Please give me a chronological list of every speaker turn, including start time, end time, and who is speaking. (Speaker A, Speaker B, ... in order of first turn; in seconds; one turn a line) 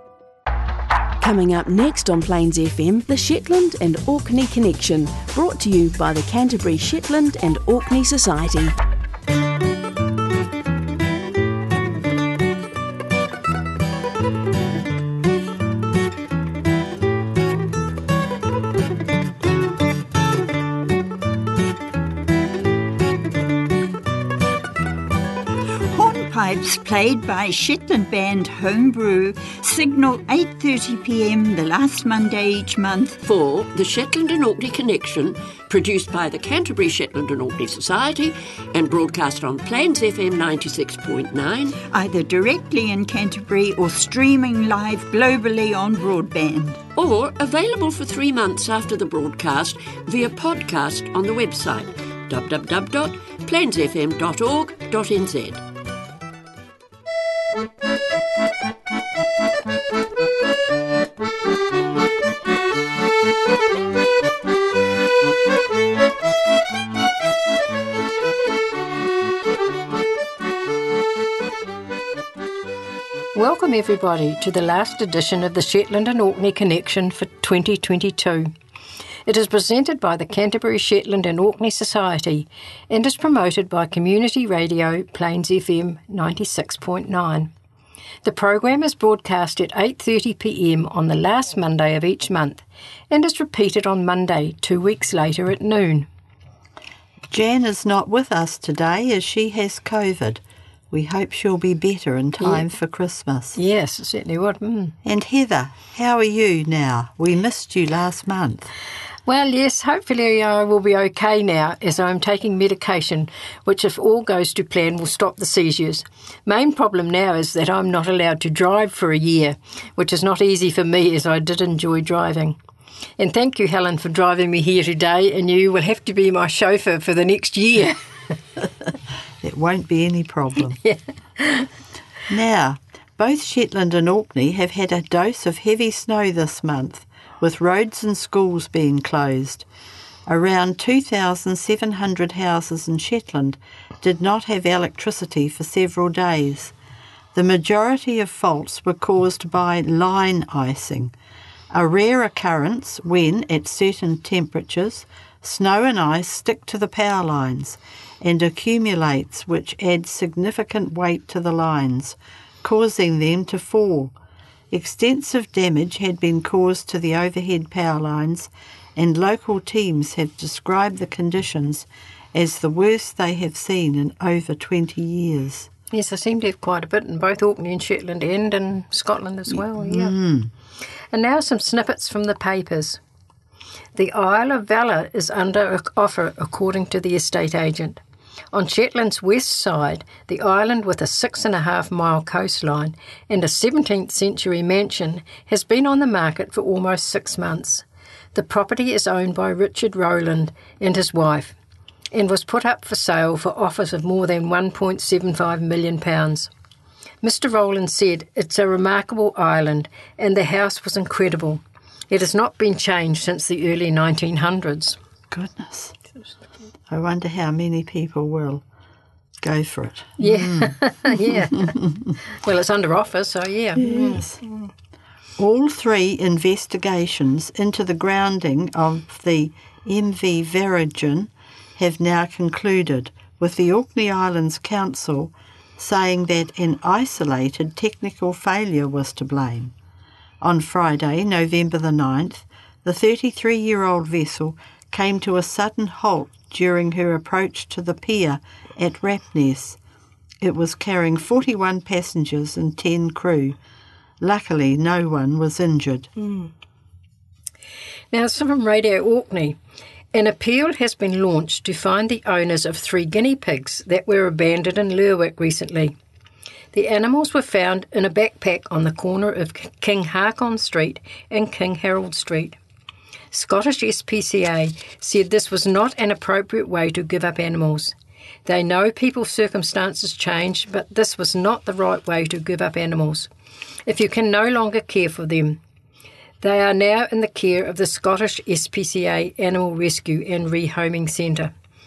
Speaker A: 1.2-8.8
Speaker B: 25.9-33.2
Speaker C: 33.2-41.8
Speaker B: 41.8-46.8
Speaker C: 46.9-55.6
Speaker D: 73.3-78.5
Speaker D: 79.2-87.5
Speaker D: 88.2-96.1
Speaker E: 97.3-103.6
Speaker D: 103.5-104.9
Speaker E: 105.0-108.7
Speaker D: 109.3-122.6
Speaker D: 123.2-128.0
Speaker E: 129.4-130.8
Speaker D: 130.8-131.7
Speaker E: 132.3-139.7
Speaker E: 140.3-146.7
Speaker E: 147.3-151.1
Speaker E: 151.7-164.1
Speaker E: 164.7-175.7
Speaker D: 175.9-180.1
Speaker E: 179.5-180.5
Speaker D: 181.1-183.0
Speaker D: 183.9-188.0
Speaker D: 188.5-201.6
Speaker D: 202.1-206.5
Speaker D: 207.2-215.0
Speaker E: 215.3-215.9
Speaker E: 216.9-218.6
Speaker E: 219.4-222.1
Speaker D: 220.2-221.7
Speaker D: 222.3-224.3
Speaker E: 223.8-224.4
Speaker E: 225.4-239.7
Speaker E: 240.4-249.8
Speaker E: 250.4-253.6
Speaker E: 254.2-256.1
Speaker D: 256.2-256.5
Speaker D: 258.1-259.6
Speaker D: 260.1-265.9
Speaker D: 266.7-272.6
Speaker D: 273.3-277.9
Speaker D: 278.4-283.3
Speaker D: 283.9-285.6
Speaker D: 286.4-291.5